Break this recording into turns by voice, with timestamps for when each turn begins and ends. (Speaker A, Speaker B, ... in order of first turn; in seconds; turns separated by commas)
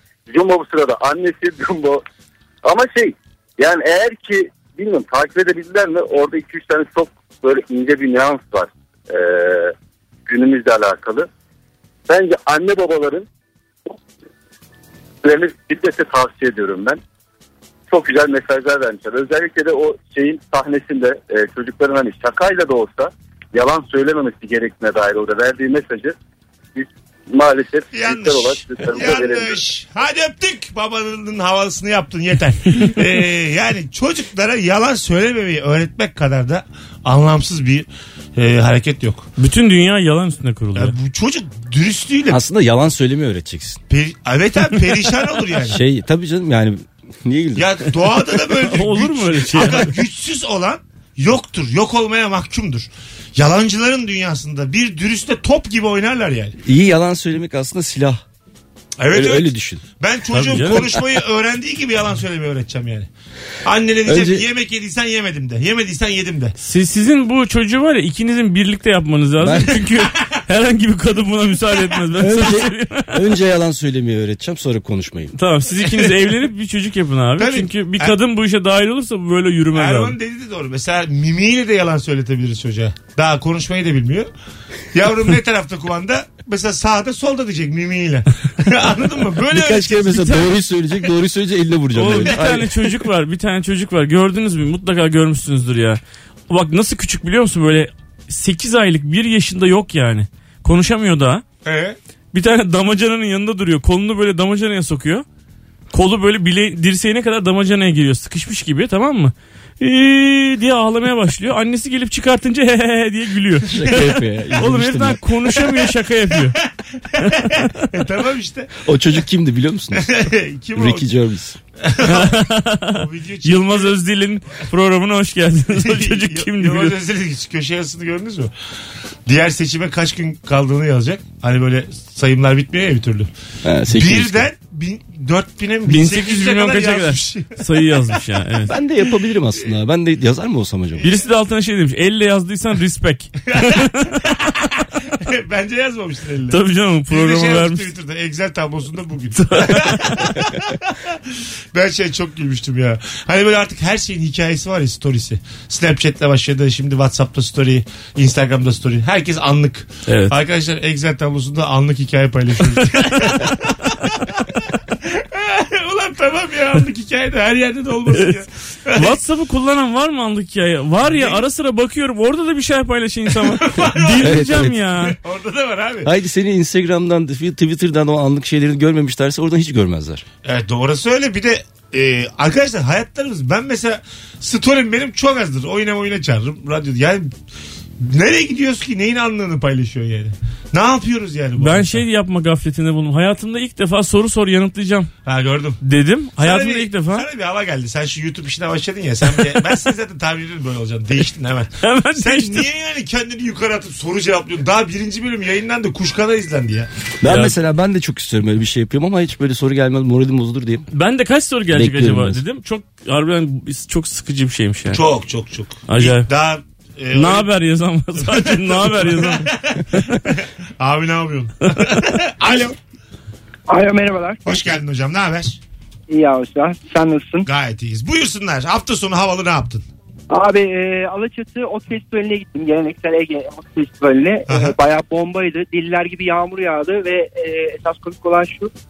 Speaker A: 0.3-2.0, Speaker A: 2.6-9.7, Speaker A: 10.3-11.3, Speaker A: 12.1-13.3, Speaker A: 15.2-17.0, Speaker A: 17.9-26.2, Speaker A: 26.8-29.6, Speaker B: 27.9-39.3, Speaker C: 39.4-41.0, Speaker B: 40.8-42.4, Speaker D: 42.3-43.8, Speaker B: 43.9-45.8, Speaker D: 45.7-47.9, Speaker B: 47.6-56.5, Speaker C: 48.6-50.0, Speaker D: 56.6-58.2, Speaker B: 59.0-63.1, Speaker D: 59.1-59.8, Speaker C: 60.3-61.0, Speaker B: 63.6-66.5, Speaker D: 64.1-64.5, Speaker C: 66.6-73.2, Speaker D: 69.4-69.8, Speaker D: 72.2-75.3, Speaker C: 75.3-80.2, Speaker B: 77.4-78.2, Speaker B: 79.8-84.3, Speaker B: 84.9-90.4, Speaker D: 89.5-92.8, Speaker C: 91.9-101.4, Speaker B: 92.2-92.5, Speaker B: 101.7-102.0, Speaker C: 102.3-105.2, Speaker C: 105.9-114.0, Speaker D: 113.6-115.2, Speaker C: 114.5-116.6, Speaker B: 115.6-115.9, Speaker B: 117.0-118.8, Speaker D: 118.8-120.1, Speaker B: 120.0-121.0, Speaker D: 120.8-121.6, Speaker B: 121.8-124.0, Speaker C: 122.0-127.0, Speaker B: 125.7-128.5, Speaker B: 129.3-133.3, Speaker D: 133.6-134.5, Speaker B: 133.9-137.5, Speaker C: 135.9-138.7, Speaker D: 138.7-141.0, Speaker C: 141.0-144.0, Speaker B: 143.5-146.6, Speaker C: 146.5-147.9, Speaker B: 147.1-169.1, Speaker C: 149.4-150.4, Speaker C: 160.1-160.3, Speaker C: 163.0-163.4, Speaker C: 168.1-168.4, Speaker C: 168.9-175.2, Speaker B: 171.0-171.4, Speaker B: 173.3-176.1, Speaker D: 174.2-174.8, Speaker D: 176.0-180.2, Speaker B: 180.4-187.3, Speaker B: 188.0-192.0, Speaker C: 191.6-195.1, Speaker B: 195.3-195.8, Speaker C: 195.8-197.3, Speaker B: 196.4-206.9, Speaker C: 199.2-199.6, Speaker C: 201.8-202.7, Speaker D: 207.2-210.9, Speaker C: 207.3-207.6, Speaker C: 210.9-215.0, Speaker D: 211.7-212.4, Speaker B: 214.9-217.5, Speaker C: 215.9-216.3, Speaker C: 217.1-219.5, Speaker B: 218.2-222.8, Speaker E: 223.7-224.4, Speaker B: 224.5-225.6, Speaker E: 226.1-227.5, Speaker B: 227.4-229.8, Speaker E: 230.3-238.7, Speaker B: 234.5-234.7